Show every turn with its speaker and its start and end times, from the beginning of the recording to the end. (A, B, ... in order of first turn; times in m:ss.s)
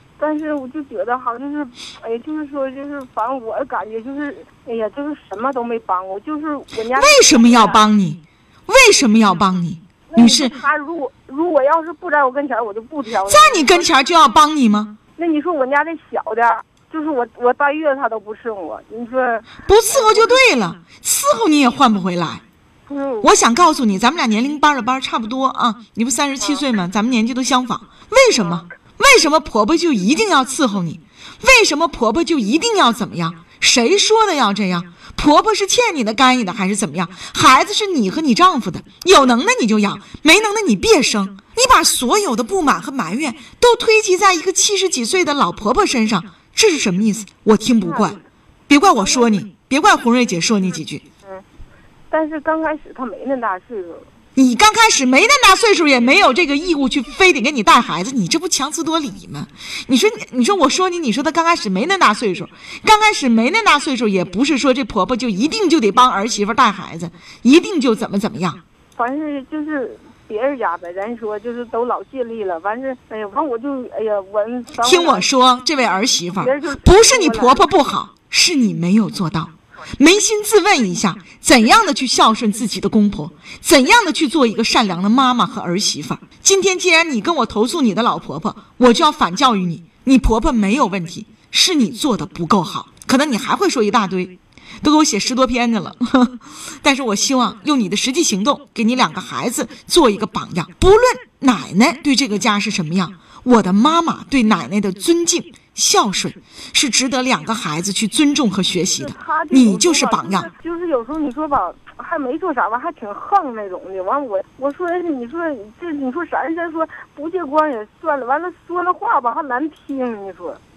0:00.2-0:07.8 A
0:07.0-0:10.6 B
0:10.1-0:13.9 A
0:13.2-0:15.0 B
0:15.2-0:20.3 A
0:19.6-0:22.4 B
0:22.9-0:23.3 A
0:23.2-0:48.2 B
0:47.8-0:48.2 A
0:48.7-0:51.0 B
0:52.1-0:54.1 A
0:54.4-1:08.6 B
1:08.9-1:15.3 A
1:14.8-1:50.5 B
1:16.4-1:17.6 A
1:49.0-2:00.6 A